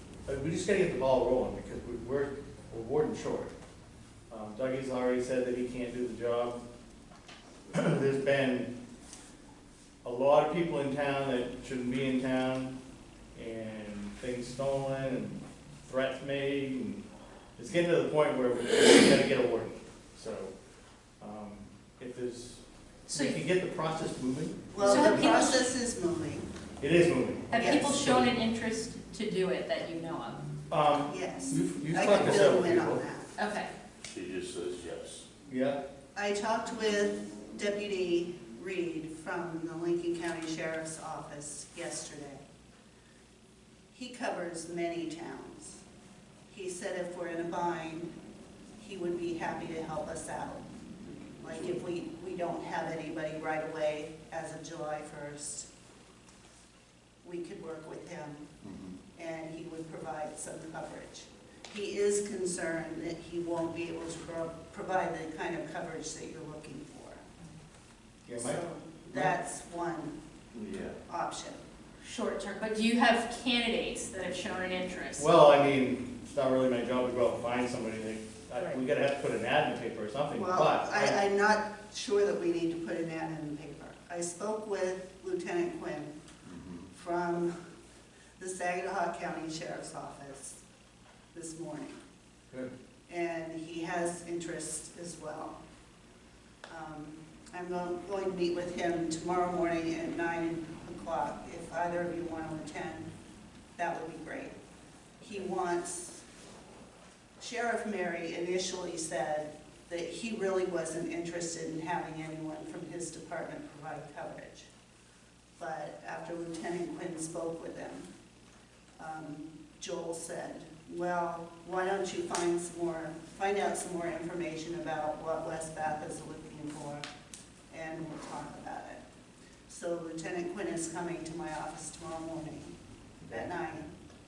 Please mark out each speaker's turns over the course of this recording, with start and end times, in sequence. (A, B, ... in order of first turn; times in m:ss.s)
0:00.2-0:03.5 A
0:04.3-0:06.6 A
0:07.7-0:08.7 A
0:10.0-0:12.7 A
0:13.3-0:17.0 A
0:17.6-0:20.5 A
0:21.2-0:22.6 A
0:23.1-0:23.4 B
0:23.1-0:25.5 A
0:24.7-0:26.4 C
0:24.8-0:25.7 B
0:26.8-0:28.3 A
0:27.5-0:30.4 B
0:27.5-0:28.0 C
0:30.7-0:33.0 A
0:31.0-0:33.3 C
0:33.4-0:33.7 B
0:34.0-0:35.3 D
0:35.5-0:35.8 A
0:36.2-0:42.4 C
0:43.9-0:45.8 C
0:46.5-0:48.1 C
0:48.8-0:50.6 C
0:51.4-0:55.7 C
0:57.2-0:58.4 C
0:58.6-0:59.0 D
0:59.2-1:07.2 C
1:08.3-1:09.3 A
1:08.3-1:10.2 C
1:10.5-1:11.0 D
1:11.1-1:11.6 C
1:12.0-1:15.3 B
1:15.2-1:21.2 A
1:20.3-1:26.1 C
1:26.4-1:26.9 D
1:26.9-1:27.5 C
1:28.4-1:30.6 C
1:31.3-1:32.0 C
1:33.1-1:35.6 C
1:36.7-1:43.1 C
1:43.8-1:44.5 C
1:45.2-1:46.2 C
1:47.4-1:54.7 C
1:55.6-1:58.1 C
1:59.0-2:07.0 C
2:07.7-2:09.0 C
2:09.7-2:12.7 C
2:13.3-2:13.9 C